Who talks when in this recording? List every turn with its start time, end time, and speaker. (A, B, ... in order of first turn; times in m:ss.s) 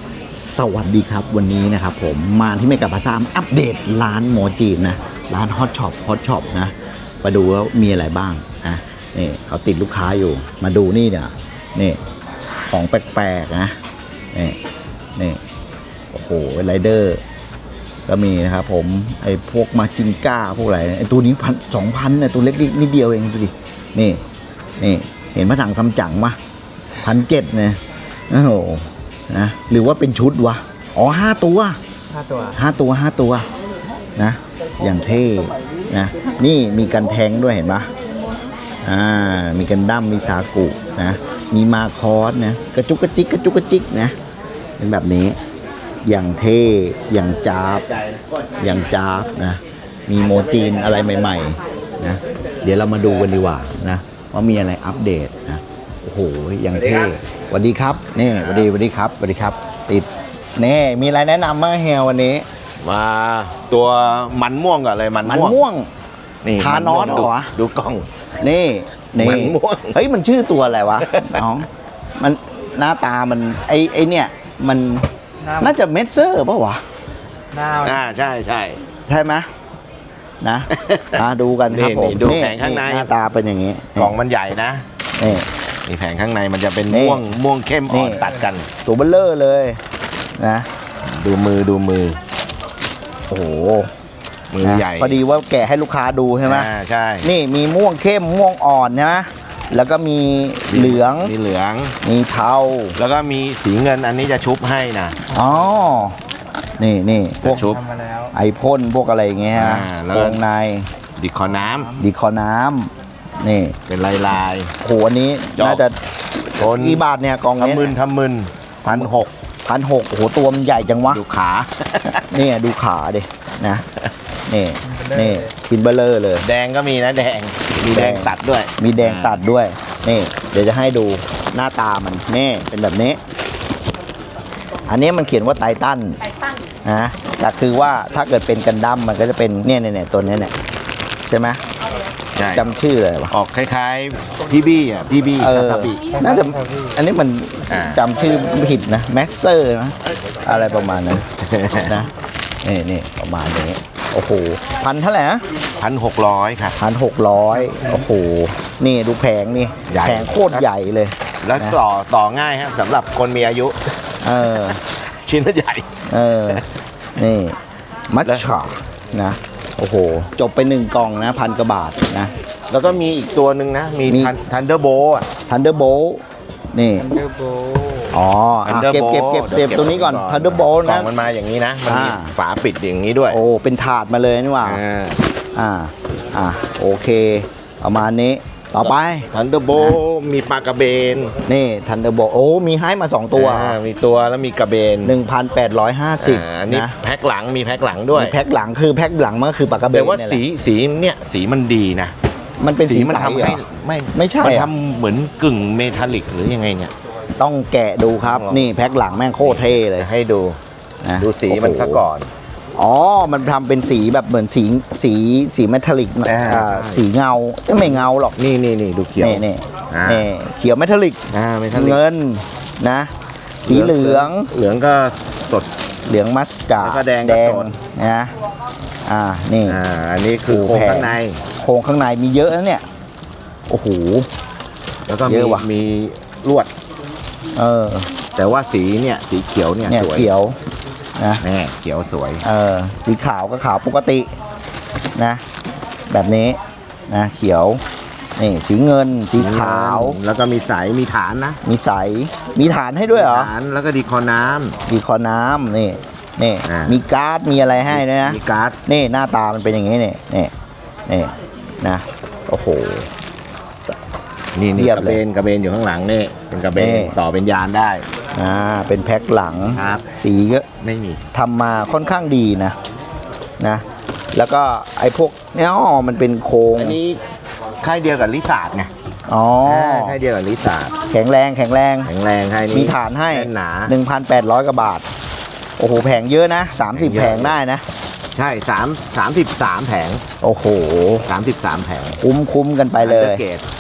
0:00.3-0:12.0 A
0:12.7-0:13.8 A
0:16.1-0:17.2 A
0:18.1-0:24.2 A
0:24.8-0:26.4 A
0:27.0-0:27.8 A
0:28.3-0:31.8 A
0:32.1-0:32.6 B
0:32.6-0:33.4 A
0:34.2-0:37.9 A
0:38.8-0:44.1 A
0:44.8-0:45.4 A
0:46.0-0:47.8 A
0:48.6-1:02.4 A
0:56.7-0:57.1 C
1:02.8-1:05.6 C
1:05.2-1:05.9 A
1:06.4-1:08.1 C
1:06.6-1:07.5 A
1:08.4-1:11.7 A
1:09.2-1:10.0 C
1:11.0-1:11.4 C
1:12.2-1:15.0 A
1:15.4-1:15.7 B
1:15.6-1:16.8 A
1:17.5-1:18.0 B
1:17.8-1:18.8 C
1:19.1-1:19.5 A
1:20.4-1:24.1 A
1:20.7-1:23.1 C
1:24.0-1:28.7 C
1:25.2-1:25.4 A
1:26.9-1:27.3 A
1:27.9-1:28.3 A
1:28.8-1:29.8 A
1:30.4-1:30.7 A
1:31.0-1:32.2 C
1:33.3-1:33.9 A
1:34.5-1:35.2 C
1:34.6-1:36.7 A
1:36.4-1:37.3 C
1:37.2-1:41.3 A
1:40.7-1:42.0 C
1:42.0-1:43.0 A
1:43.0-1:45.2 C
1:45.3-1:46.2 A
1:46.8-1:47.6 A
1:47.4-1:47.8 C
1:47.6-1:48.3 B
1:48.3-1:50.9 A
1:49.5-1:50.4 C
1:51.2-1:52.0 C
1:51.6-1:51.9 B
1:52.0-1:53.8 A
1:53.9-1:54.7 C
1:54.8-1:55.9 A
1:55.6-1:55.8 C
1:56.5-1:57.9 A
1:56.6-1:57.0 C
1:57.6-1:59.3 C
1:59.6-2:01.2 A
2:01.1-2:02.3 C
2:02.1-2:03.8 A
2:04.5-2:06.4 A
2:04.9-2:05.4 B
2:06.4-2:09.4 C
2:07.9-2:13.2 A
2:14.9-2:16.2 A
2:16.8-2:20.5 A
2:21.3-2:21.6 A
2:22.4-2:22.7 C
2:22.5-2:23.3 A
2:23.3-2:26.0 C
2:25.4-2:31.2 A
2:26.1-2:26.9 B
2:27.7-2:28.0 C
2:31.4-2:32.0 C
2:31.8-2:32.1 A
2:32.6-2:35.4 A
2:35.8-2:36.8 C
2:36.8-2:41.8 A
2:39.9-2:40.7 C
2:41.4-2:43.8 C
2:44.2-2:44.8 A
2:44.6-2:45.8 C
2:46.1-2:46.6 A
2:47.2-2:47.6 A
2:48.1-2:52.3 A
2:48.2-2:48.5 C
2:52.7-2:55.3 C
2:54.1-2:54.3 A
2:55.5-2:56.2 A
2:56.7-2:57.2 A
2:57.0-2:58.1 B
2:58.1-3:01.1 A
2:58.6-3:03.4 C
3:01.8-3:02.3 A
3:03.3-3:04.8 A
3:04.6-3:05.2 C
3:05.5-3:10.0 A
3:08.8-3:11.3 C
3:11.4-3:13.8 A
3:13.3-3:15.1 C
3:15.0-3:16.9 A
3:16.2-3:18.3 C
3:18.1-3:20.4 A
3:19.9-3:22.1 C
3:22.6-3:23.6 A
3:22.8-3:26.9 C
3:24.1-3:24.7 A
3:27.4-3:30.1 A
3:28.2-3:28.7 C
3:29.4-3:30.6 C
3:31.0-3:32.0 A
3:31.2-3:32.3 C
3:32.8-3:38.4 A
3:36.2-3:37.0 C
3:37.8-3:40.3 C
3:39.2-3:43.1 A
3:41.3-3:42.0 C
3:43.6-3:44.5 A
3:43.6-3:45.7 C
3:46.1-3:48.3 A
3:46.8-3:47.7 C
3:49.1-3:49.8 A
3:49.7-3:51.4 C
3:50.5-3:52.8 A
3:53.7-3:54.3 A
3:55.1-3:56.7 C
3:55.2-3:55.7 A
3:57.5-3:58.1 A
3:58.4-4:00.3 C
3:59.9-4:00.6 A
4:01.2-4:01.4 A
4:01.4-4:02.4 C
4:02.4-4:04.3 A
4:05.2-4:05.4 A
4:06.1-4:07.8 A
4:08.4-4:10.2 A
4:09.4-4:11.6 C
4:11.6-4:13.5 A
4:13.1-4:14.8 C
4:14.9-4:20.5 A
4:16.6-4:17.0 C
4:17.9-4:18.8 C
4:21.1-4:23.1 A
4:24.6-4:28.0 C
4:24.8-4:25.2 A
4:26.7-4:27.2 A
4:28.3-4:30.6 A
4:29.8-4:30.0 C
4:30.8-4:31.3 C
4:31.3-4:32.8 A
4:33.6-4:37.0 A
4:36.8-4:37.2 C
4:37.8-4:38.9 C
4:39.3-4:40.2 A
4:39.6-4:41.0 C
4:41.1-4:42.1 A
4:42.0-4:43.9 C
4:42.7-4:45.0 A
4:45.8-4:47.8 A
4:46.9-4:47.6 C
4:48.3-4:50.2 C
4:50.4-4:51.3 A
4:51.2-4:52.2 C
4:52.2-4:53.4 A
4:53.0-4:53.6 C